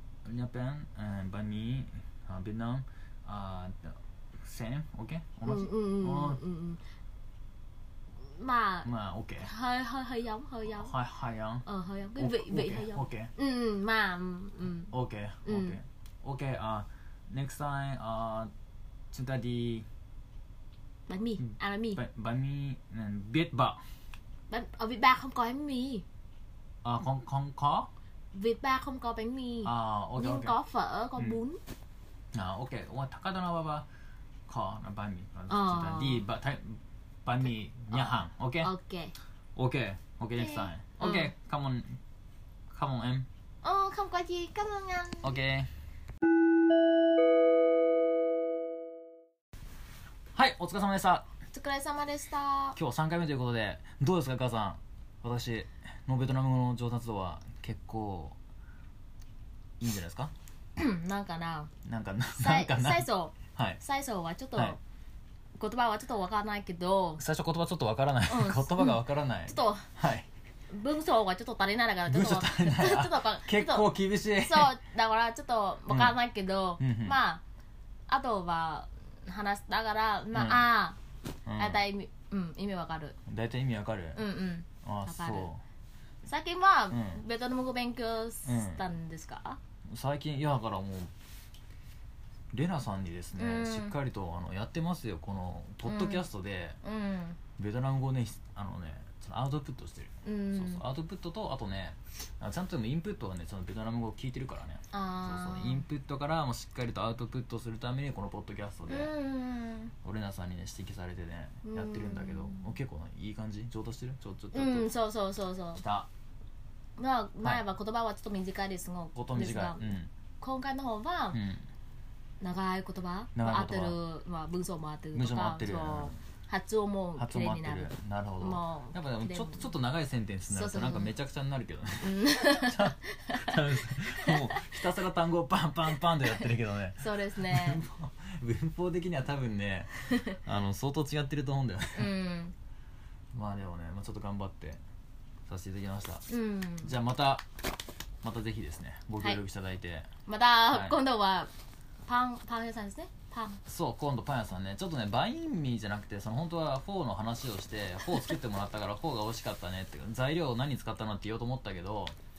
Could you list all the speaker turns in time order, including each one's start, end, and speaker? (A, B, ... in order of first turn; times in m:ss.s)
0:00.2-0:06.4 A
0:05.4-0:06.8 B
0:08.2-0:10.9 B
0:08.8-0:09.5 A
0:10.7-0:13.3 A
0:11.6-0:14.9 B
0:14.9-0:18.5 A
0:15.4-0:15.8 B
0:19.1-0:19.9 A
0:21.1-0:22.0 B
0:21.4-0:23.9 A
0:24.5-0:26.0 B
0:26.8-0:27.9 A
0:28.3-0:31.6 B
0:29.6-0:30.6 A
0:32.3-0:33.9 A
0:34.5-0:38.7 A
0:35.5-0:36.2 B
0:37.9-0:39.1 B
0:39.6-0:42.0 A
0:40.4-0:41.3 B
0:42.7-0:43.3 A
0:43.6-0:45.3 B
0:45.2-0:45.7 A
0:50.3-0:51.2 A
0:51.5-0:52.8 B
0:52.8-0:58.4 A
0:59.8-1:00.3 A
1:00.8-1:01.7 B
1:01.8-1:03.8 A
1:02.4-1:04.8 B
1:05.6-1:07.2 B
1:07.2-1:10.3 A
1:08.3-1:09.9 B
1:10.7-1:17.4 B
1:12.0-1:14.8 A
1:15.9-1:16.2 A
1:16.8-1:17.2 A
1:18.1-1:21.0 B
1:20.3-1:20.7 A
1:21.4-1:21.8 A
1:21.6-1:23.2 B
1:23.2-1:24.2 A
1:24.2-1:25.5 B
1:24.8-1:25.6 A
1:26.2-1:29.6 B
1:26.9-1:27.2 A
1:28.4-1:28.8 A
1:29.8-1:31.1 A
1:32.5-1:36.8 A
1:33.4-1:34.0 B
1:35.8-1:36.3 B
1:36.8-1:37.4 B
1:37.6-1:49.1 A
1:40.2-1:40.8 B
1:44.9-1:45.8 B
1:48.9-1:49.9 B
1:50.0-1:54.9 A
1:51.6-1:52.7 B
1:54.5-1:55.8 B
1:55.7-1:56.1 A
1:57.0-1:59.8 B
1:59.1-2:00.1 A
2:00.4-2:01.4 B
2:01.3-2:01.6 A
2:02.4-2:09.7 B
2:03.3-2:04.0 A
2:05.1-2:06.2 A
2:07.2-2:22.1 A
2:10.4-2:11.1 B
2:12.0-2:14.8 B
2:17.0-2:17.8 B
2:21.9-2:22.5 B
2:23.3-2:24.8 A
2:25.5-2:26.2 A
2:26.3-2:26.9 B
2:26.8-2:27.4 A
2:28.2-2:30.1 A
2:30.3-2:31.5 B
2:30.7-2:31.0 A
2:32.0-2:33.6 B
2:33.7-2:42.2 A